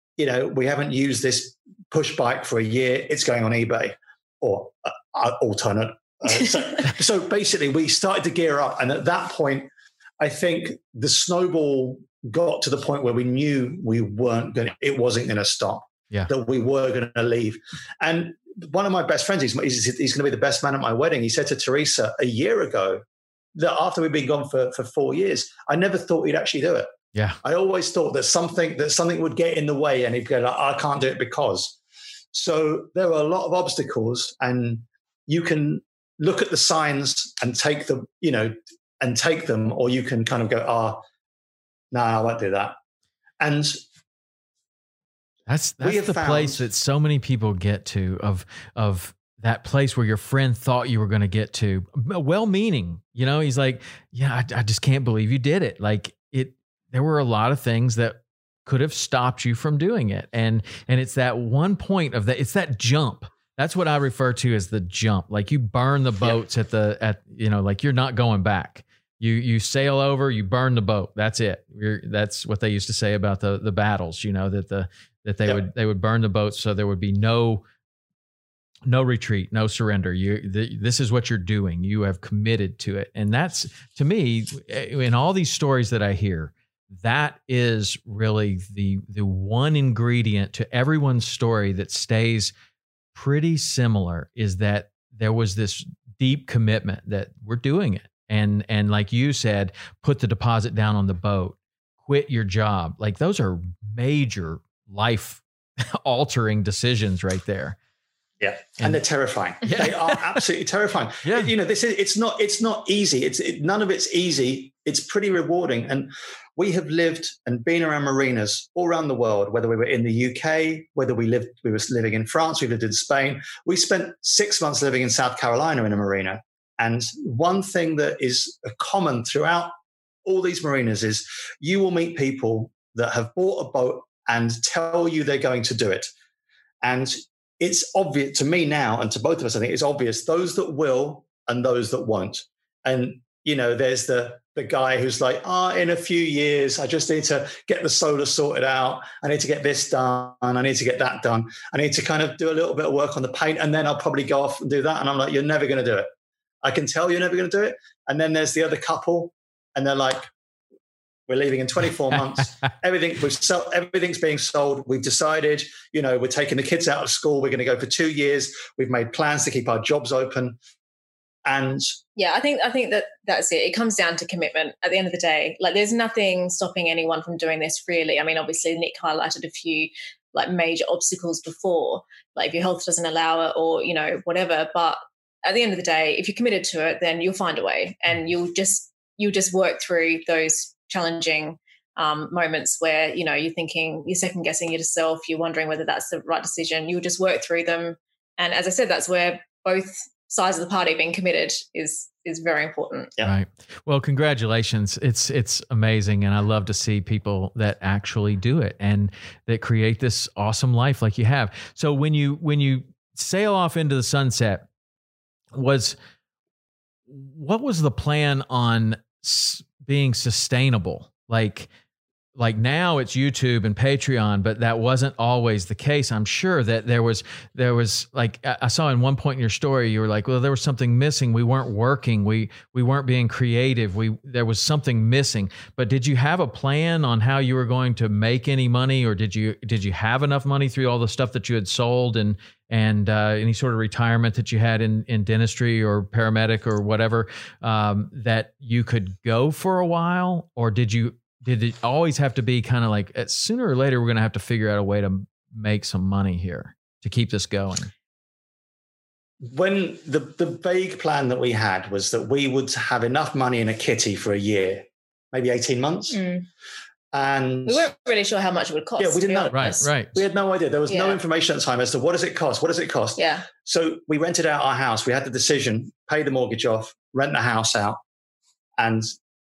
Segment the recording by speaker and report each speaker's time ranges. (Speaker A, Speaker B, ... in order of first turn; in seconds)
Speaker A: 0.2-23.0, 23.5-31.8, 32.3-41.0, 41.9-42.8, 43.4-43.8, 45.8-46.6, 108.4-129.7, 130.2-136.1, 136.8-156.1, 156.6-160.3, 161.3-170.6, 171.4-171.8, 259.4-266.2, 267.1-267.9, 269.0-278.0, 278.8-279.1
Speaker B: 27.1-27.4, 45.5-77.6, 78.8-92.5, 93.1-107.8, 109.6-110.4, 111.2-111.5, 203.2-214.7, 215.5-215.9, 217.1-221.7, 222.3-257.9, 269.5-270.1
Speaker C: 172.2-203.1, 266.1-266.4, 267.6-269.9, 270.9-271.2, 273.2-273.4